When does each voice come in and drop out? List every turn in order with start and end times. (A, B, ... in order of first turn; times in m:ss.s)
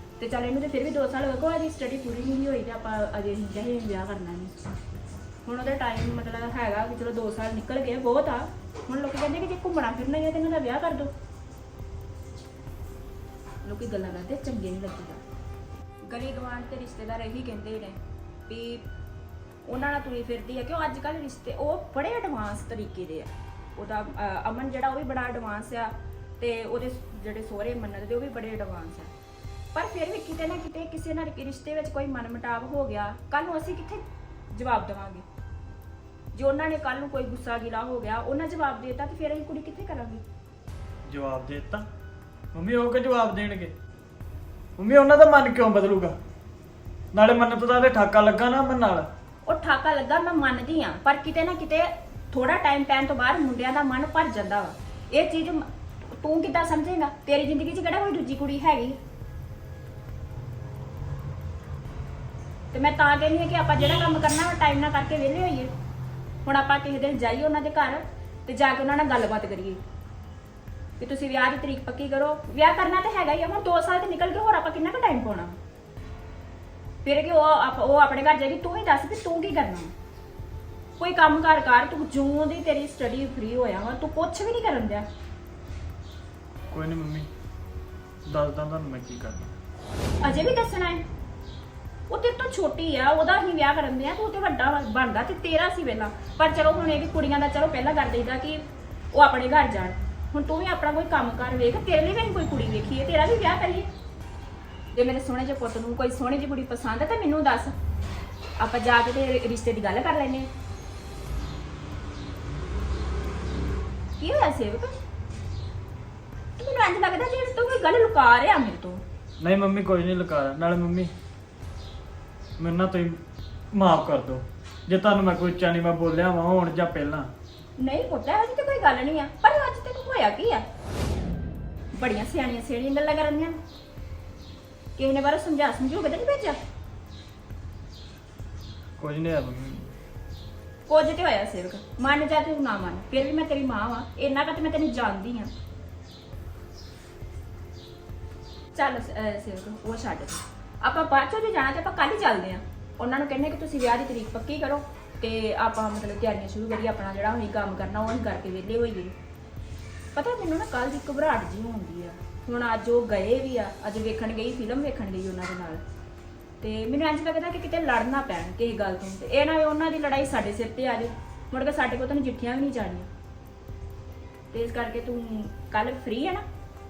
0:00.2-0:04.7 A
0:05.4-0:11.1 A
0:13.6-0:15.2 A
0:16.0-0:18.8 A
0:19.6-0:29.1 A
0:29.7-0:35.2 A
0:36.3-0:40.2 A
0:41.1-0:41.8 B
0:42.5-0:43.7 B
0:44.8-0:46.1 B
0:47.1-0:49.1 B
0:49.4-0:55.6 A
0:56.2-0:59.0 A
1:02.7-1:05.7 A
1:06.4-1:09.8 A
1:11.0-1:15.6 A
1:17.0-1:19.9 A
1:21.0-1:25.1 A
1:26.7-1:27.3 B
1:28.2-1:29.5 B
1:30.2-1:31.0 A
1:32.1-1:43.9 A
1:44.9-1:47.7 A
1:48.6-1:50.5 A
1:54.2-1:55.0 A
1:56.6-1:59.0 A
1:59.4-2:01.1 B
2:02.6-2:03.2 B
2:03.7-2:07.3 B
2:07.8-2:10.6 A
2:11.9-2:13.6 A
2:15.0-2:16.6 A
2:19.0-2:19.9 B
2:20.9-2:25.5 A
2:28.7-2:39.1 A
2:40.1-2:45.8 A
2:46.6-2:53.1 A
2:54.5-2:56.4 A